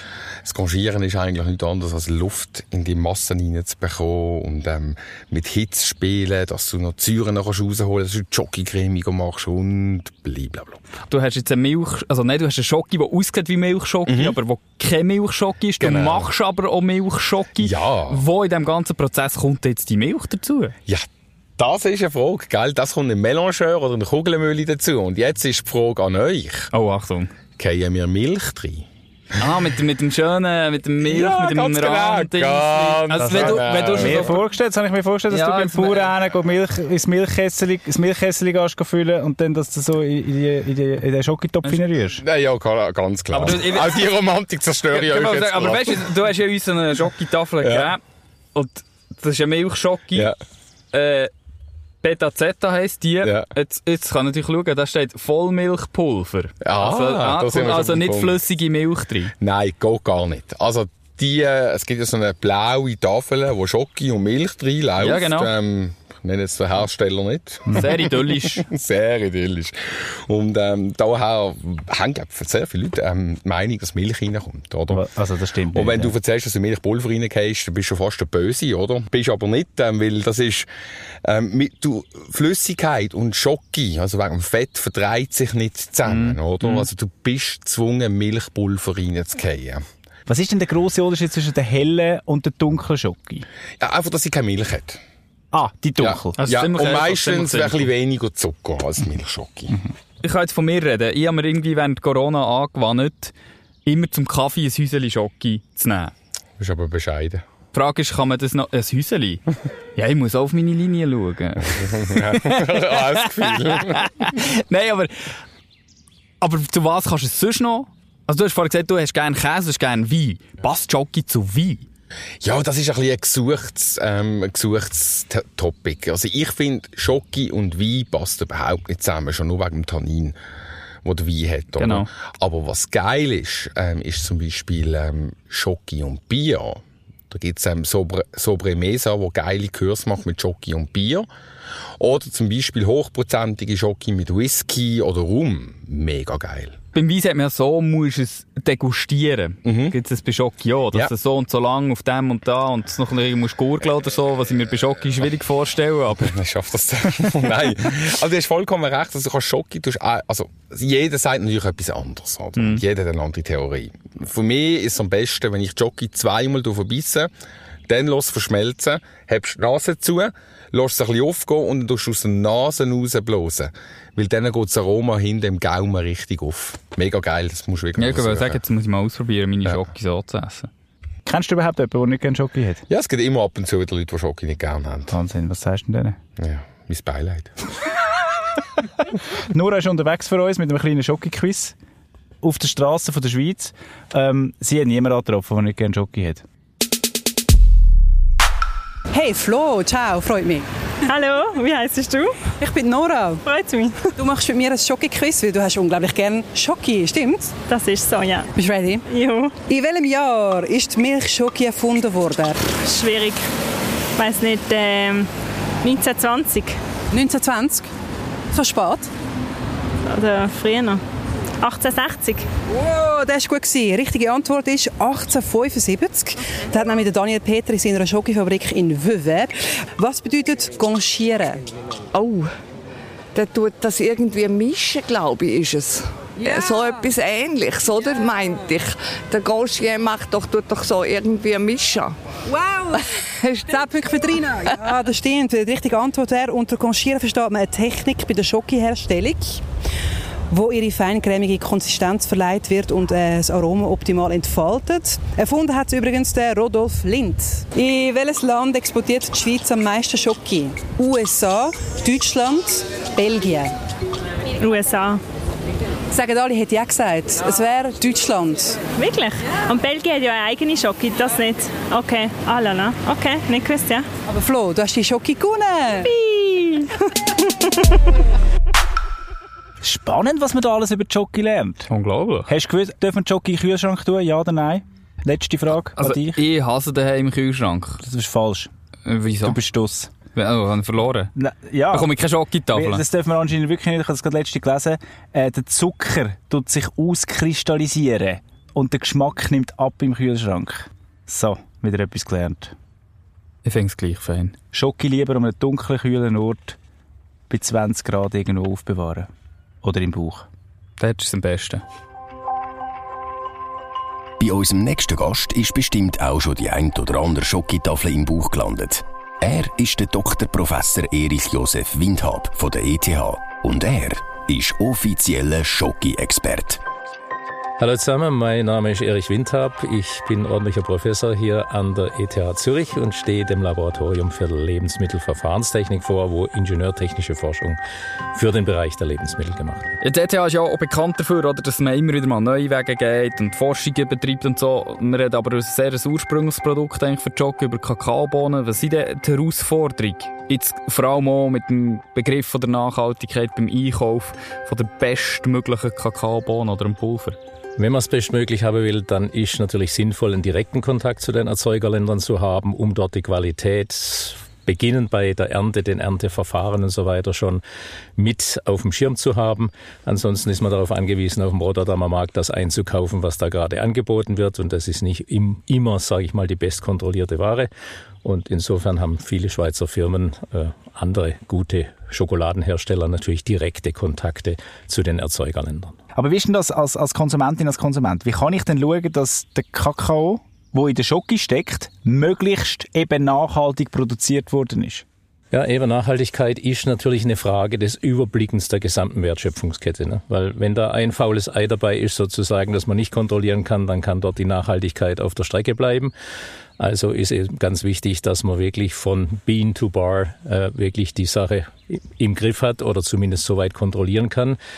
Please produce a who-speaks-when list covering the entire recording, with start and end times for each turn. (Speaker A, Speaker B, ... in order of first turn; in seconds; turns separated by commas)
Speaker A: 0.5-10.8, Speaker B: 11.1-20.7, Speaker A: 14.1-14.4, Speaker A: 15.8-16.3, Speaker A: 17.6-18.2, Speaker A: 21.6-26.7, Speaker B: 26.7-27.3, Speaker A: 27.6-28.9, Speaker B: 29.4-34.4, Speaker A: 31.0-34.4, Speaker C: 33.2-42.2, Speaker B: 35.3-36.1, Speaker A: 42.2-46.0, Speaker B: 43.3-44.1, Speaker B: 44.9-48.0, Speaker A: 47.6-47.9, Speaker B: 48.5-50.3, Speaker B: 50.9-51.3, Speaker B: 52.0-59.3, Speaker A: 56.6-58.4, Speaker A: 59.4-67.8, Speaker B: 65.0-65.5, Speaker B: 67.7-68.7, Speaker A: 68.5-69.8, Speaker A: 70.3-75.0, Speaker C: 74.9-76.2, Speaker A: 75.7-80.7, Speaker A: 81.2-89.8, Speaker B: 86.0-86.9, Speaker C: 90.3-93.5, Speaker A: 93.8-95.0, Speaker C: 95.5-96.4, Speaker A: 96.0-99.8, Speaker B: 96.4-97.9, Speaker B: 100.2-103.3, Speaker B: 103.9-106.1, Speaker A: 106.6-107.4, Speaker B: 107.7-109.4, Speaker B: 110.0-115.1, Speaker A: 112.1-114.0, Speaker B: 116.4-121.9, Speaker A: 122.4-130.4, Speaker A: 131.0-141.3, Speaker B: 131.8-132.1, Speaker A: 142.0-146.8, Speaker B: 146.9-156.3, Speaker A: 149.7-149.9, Speaker A: 156.3-167.3, Speaker B: 162.6-162.8, Speaker A: 167.9-178.6, Speaker B: 178.0-180.7, Speaker C: 181.3-182.8, Speaker A: 182.9-185.2, Speaker C: 185.1-186.2, Speaker A: 186.4-187.5, Speaker C: 189.2-191.8, Speaker C: 192.4-196.4, Speaker D: 199.1-200.7, Speaker E: 201.1-202.5, Speaker D: 202.6-203.4, Speaker E: 203.5-204.0, Speaker D: 204.2-207.5, Speaker E: 207.7-208.5, Speaker D: 208.6-209.0, Speaker E: 209.1-209.6, Speaker D: 209.7-212.6, Speaker E: 212.8-213.4, Speaker E: 214.2-215.3, Speaker E: 215.8-216.8, Speaker D: 217.1-217.9, Speaker D: 218.5-219.1, Speaker E: 220.1-221.0, Speaker E: 221.6-222.5, Speaker D: 222.8-231.6, Speaker F: 232.1-232.5, Speaker F: 233.3-242.1, Speaker D: 236.5-236.7, Speaker D: 242.5-243.0, Speaker D: 243.7-249.6, Speaker D: 250.5-263.7, Speaker E: 264.6-265.2, Speaker D: 266.1-268.8, Speaker E: 269.0-274.1, Speaker D: 274.3-276.1, Speaker E: 276.1-276.9, Speaker C: 279.8-281.9, Speaker B: 281.9-282.5, Speaker C: 282.5-286.4, Speaker B: 286.0-288.0, Speaker C: 288.0-288.7, Speaker B: 289.1-289.6, Speaker C: 289.4-290.1, Speaker B: 290.4-291.3, Speaker C: 291.4-292.1, Speaker B: 291.9-293.0, Speaker C: 292.7-302.8, Speaker B: 303.6-304.5, Speaker C: 304.7-306.8, Speaker C: 307.5-309.3, Speaker C: 309.8-310.5, Speaker B: 311.0-311.8, Speaker G: 314.4-326.8, Speaker H: 327.8-337.8, Speaker H: 338.4-339.9, Speaker B: 340.0-357.4, Speaker H: 357.8-367.6, Speaker H: 368.2-377.7, Speaker H: 378.2-386.0, Speaker C: 386.1-395.0, Speaker H: 395.5-406.1, Speaker H: 406.8-414.6